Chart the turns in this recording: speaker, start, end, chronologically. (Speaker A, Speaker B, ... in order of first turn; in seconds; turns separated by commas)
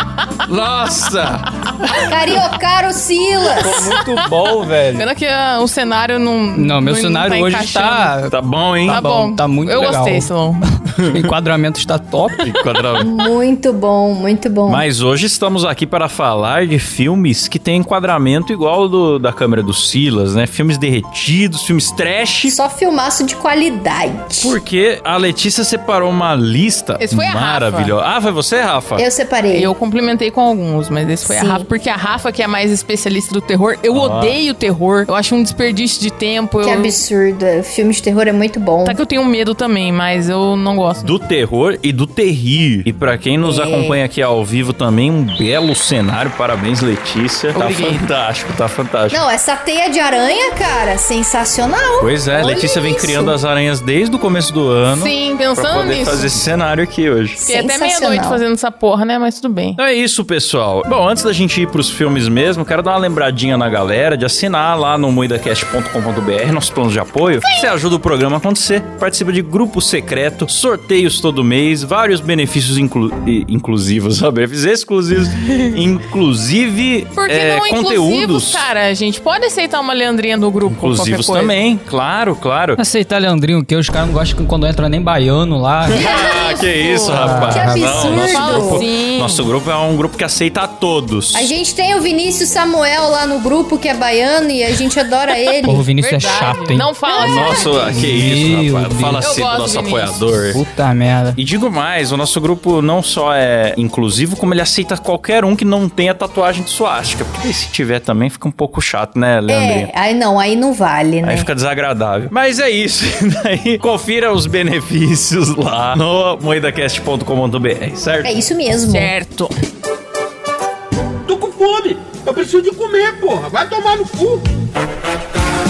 Speaker A: 0.4-2.1, Speaker B: 2.0-3.9, Speaker C: 3.6-5.1, Speaker D: 3.6-4.3, Speaker D: 4.9-8.1, Speaker C: 6.5-8.3, Speaker A: 8.3-9.0, Speaker C: 8.8-10.3, Speaker D: 8.9-10.6, Speaker C: 10.9-12.5, Speaker A: 11.0-11.3, Speaker A: 12.4-13.1, Speaker B: 13.0-14.8, Speaker A: 14.7-22.6, Speaker B: 22.5-24.6, Speaker A: 24.4-29.0, Speaker D: 27.0-27.9, Speaker B: 28.9-29.7, Speaker D: 29.5-36.9, Speaker B: 31.2-31.7, Speaker A: 33.9-34.4, Speaker B: 36.6-39.0, Speaker D: 38.8-41.1, Speaker A: 41.0-49.2, Speaker B: 43.4-44.0, Speaker D: 47.5-48.0, Speaker B: 49.1-53.4, Speaker A: 52.0-57.4, Speaker D: 54.9-56.4, Speaker B: 57.4-58.4, Speaker D: 57.5-59.8, Speaker A: 59.8-78.7, Speaker D: 67.4-67.7, Speaker D: 75.3-75.8, Speaker D: 77.1-81.5, Speaker A: 80.7-82.8, Speaker C: 82.8-86.0, Speaker A: 85.8-91.5, Speaker D: 86.0-89.5, Speaker B: 86.0-86.5, Speaker C: 87.2-88.2, Speaker B: 87.5-88.8, Speaker B: 91.3-95.8, Speaker C: 95.6-96.9, Speaker D: 95.9-98.1, Speaker B: 97.1-97.9, Speaker A: 97.2-100.6, Speaker C: 97.9-99.2, Speaker D: 99.2-100.2, Speaker C: 100.5-101.4, Speaker A: 101.3-109.9, Speaker B: 109.5-111.5, Speaker A: 111.2-118.3, Speaker B: 118.2-119.1, Speaker D: 118.8-119.5, Speaker E: 121.2-124.5